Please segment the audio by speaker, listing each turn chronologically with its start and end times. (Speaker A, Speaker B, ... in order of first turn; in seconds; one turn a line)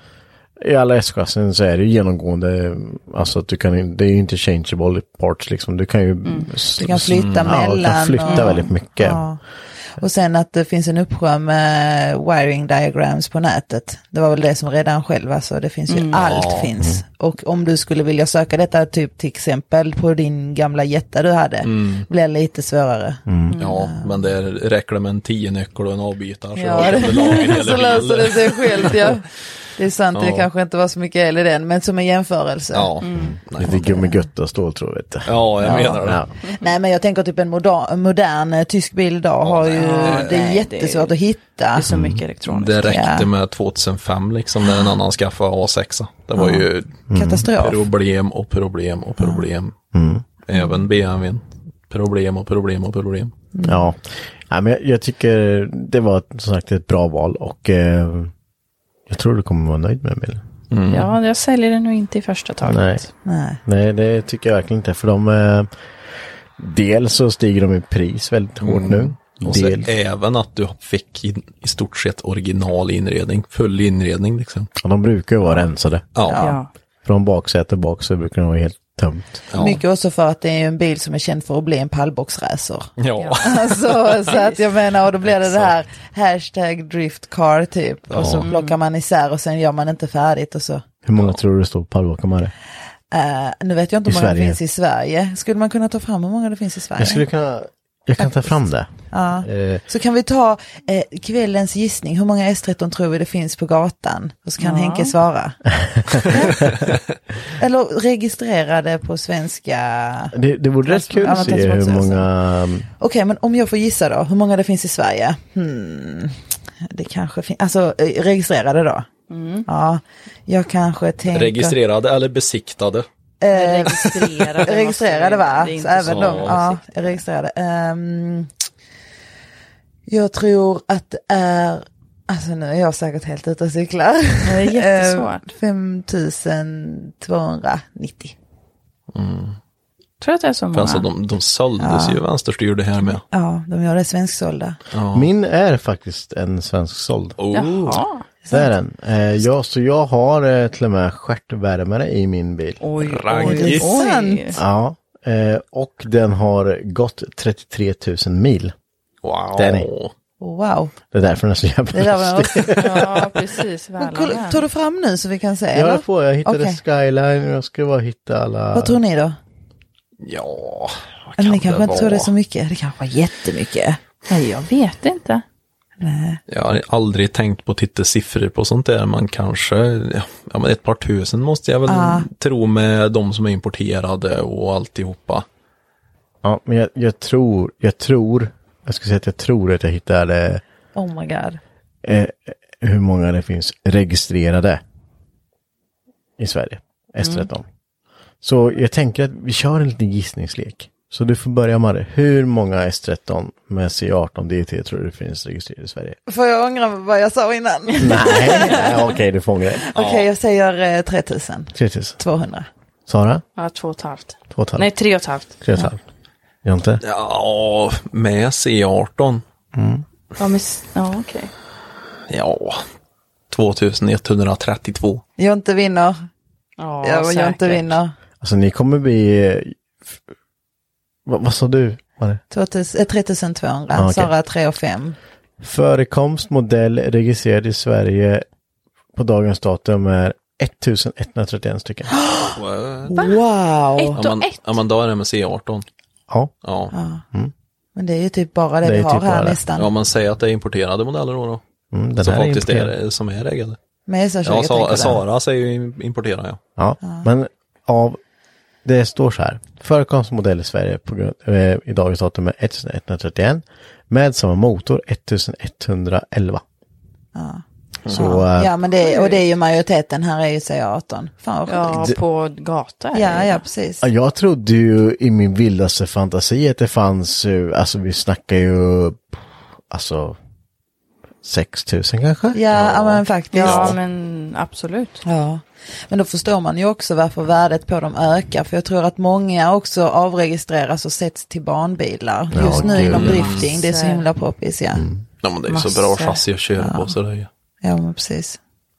Speaker A: 0.6-9.2
Speaker B: 6.2-6.5
Speaker C: 6.8-9.4
Speaker D: 7.1-7.5
Speaker B: 8.2-8.7
Speaker C: 10.0-24.2
Speaker B: 15.9-16.5
Speaker D: 16.2-16.7
Speaker D: 21.6-22.1
Speaker B: 23.5-23.9
Speaker D: 23.6-29.0
Speaker C: 26.6-29.2
Speaker B: 26.7-27.5
Speaker C: 29.8-32.9
Speaker D: 30.1-30.5
Speaker D: 32.7-33.9
Speaker B: 33.0-33.4
Speaker A: 33.5-36.3
Speaker C: 33.8-34.2
Speaker D: 35.3-36.2
Speaker C: 35.6-41.9
Speaker D: 39.4-40.4
Speaker B: 39.8-41.1
Speaker B: 41.7-43.0
Speaker A: 41.9-42.2
Speaker D: 42.5-46.9
Speaker C: 42.9-43.2
Speaker C: 46.4-47.9
Speaker A: 47.1-47.5
Speaker D: 47.6-49.7
Speaker C: 49.2-49.4
Speaker A: 49.9-50.2
Speaker D: 50.5-53.3
Speaker C: 53.5-53.9
Speaker A: 53.6-58.3
Speaker A: 59.1-60.4
Speaker D: 60.7-61.1
Speaker B: 60.9-63.0
Speaker A: 62.6-63.0
Speaker C: 63.2-63.6
Speaker A: 63.6-65.7
Speaker A: 66.6-69.9
Speaker D: 68.6-74.7
Speaker A: 74.8-76.0
Speaker D: 76.1-76.5
Speaker C: 76.3-76.6
Speaker B: 76.3-76.7
Speaker A: 77.0-79.4
Speaker D: 79.5-79.8
Speaker C: 79.5-90.8
Speaker D: 83.0-83.7
Speaker B: 83.2-83.6
Speaker B: 84.3-84.6
Speaker D: 85.3-85.7
Speaker A: 88.1-88.4
Speaker D: 88.2-88.4
Speaker B: 88.4-88.8
Speaker A: 91.0-92.5
Speaker C: 93.1-97.2
Speaker A: 94.0-94.6
Speaker A: 97.0-98.9
Speaker C: 98.2-98.5
Speaker C: 99.1-105.6
Speaker A: 99.4-99.8
Speaker B: 104.6-105.1
Speaker C: 106.2-106.6
Speaker C: 107.6-110.3
Speaker A: 110.3-112.8
Speaker B: 110.9-112.2
Speaker C: 111.2-112.0
Speaker C: 113.0-119.1
Speaker B: 119.3-119.7
Speaker C: 119.7-121.7
Speaker D: 121.3-123.0
Speaker C: 123.4-128.5
Speaker B: 123.5-127.2
Speaker D: 126.0-126.6
Speaker C: 130.1-138.3
Speaker B: 134.4-135.5
Speaker D: 139.1-139.6
Speaker B: 140.2-141.1
Speaker D: 140.7-143.2
Speaker C: 141.8-142.2
Speaker C: 143.3-144.8
Speaker D: 144.9-145.3
Speaker A: 145.1-147.3
Speaker D: 147.4-148.0
Speaker B: 147.5-148.2
Speaker C: 148.4-148.7
Speaker A: 148.5-152.8
Speaker B: 152.8-154.6
Speaker D: 153.0-154.0
Speaker C: 153.3-154.6
Speaker A: 154.5-158.7
Speaker D: 159.2-160.1
Speaker A: 159.6-159.9
Speaker C: 160.4-160.9
Speaker A: 161.1-163.3
Speaker C: 161.9-163.0
Speaker B: 162.8-164.6
Speaker C: 164.0-166.8
Speaker A: 165.7-169.0
Speaker C: 168.7-169.4
Speaker D: 170.2-172.3
Speaker C: 171.4-174.0
Speaker B: 174.3-175.4
Speaker C: 176.0-176.4
Speaker D: 176.5-185.4
Speaker C: 181.8-182.3
Speaker A: 186.4-190.6
Speaker C: 190.9-191.6
Speaker A: 192.0-194.8
Speaker A: 196.4-197.6
Speaker B: 197.2-197.5
Speaker A: 198.4-206.2
Speaker C: 206.3-209.1
Speaker A: 208.0-209.8
Speaker C: 209.8-212.7
Speaker D: 209.9-210.3
Speaker A: 211.7-212.2
Speaker A: 213.1-213.4
Speaker B: 213.6-215.6
Speaker A: 214.5-214.8
Speaker A: 215.6-216.0
Speaker A: 216.6-217.0
Speaker D: 217.0-219.4
Speaker A: 219.7-220.0
Speaker B: 220.4-221.5
Speaker D: 222.3-222.8
Speaker D: 223.5-225.2
Speaker C: 225.4-226.2
Speaker B: 226.8-227.9
Speaker C: 227.0-228.1
Speaker A: 228.4-229.8
Speaker A: 231.2-232.4
Speaker C: 232.5-235.2
Speaker A: 233.9-234.3
Speaker A: 235.6-238.4
Speaker A: 239.1-242.1
Speaker C: 242.1-244.2
Speaker D: 242.5-243.2
Speaker B: 244.0-244.8
Speaker D: 244.2-245.8
Speaker D: 246.6-246.9
Speaker C: 246.9-247.2
Speaker C: 247.9-249.9
Speaker A: 248.8-249.6
Speaker D: 249.8-251.6
Speaker A: 251.9-252.9
Speaker D: 252.2-253.8
Speaker C: 254.1-255.2
Speaker D: 254.4-256.6
Speaker A: 256.8-258.2
Speaker C: 257.0-257.3
Speaker A: 258.8-266.6
Speaker C: 267.3-272.1
Speaker D: 268.1-268.4
Speaker A: 268.1-268.7
Speaker B: 269.0-269.4
Speaker B: 271.7-273.7
Speaker C: 273.1-274.0
Speaker A: 274.0-280.4
Speaker A: 281.4-282.6
Speaker C: 282.5-284.0
Speaker D: 282.7-284.0
Speaker B: 283.5-285.2
Speaker C: 285.2-295.1
Speaker A: 292.5-293.5
Speaker B: 292.6-294.3
Speaker D: 293.1-293.7
Speaker A: 294.9-295.2
Speaker D: 295.4-297.5
Speaker B: 295.7-296.4
Speaker C: 296.8-297.1
Speaker C: 297.8-298.6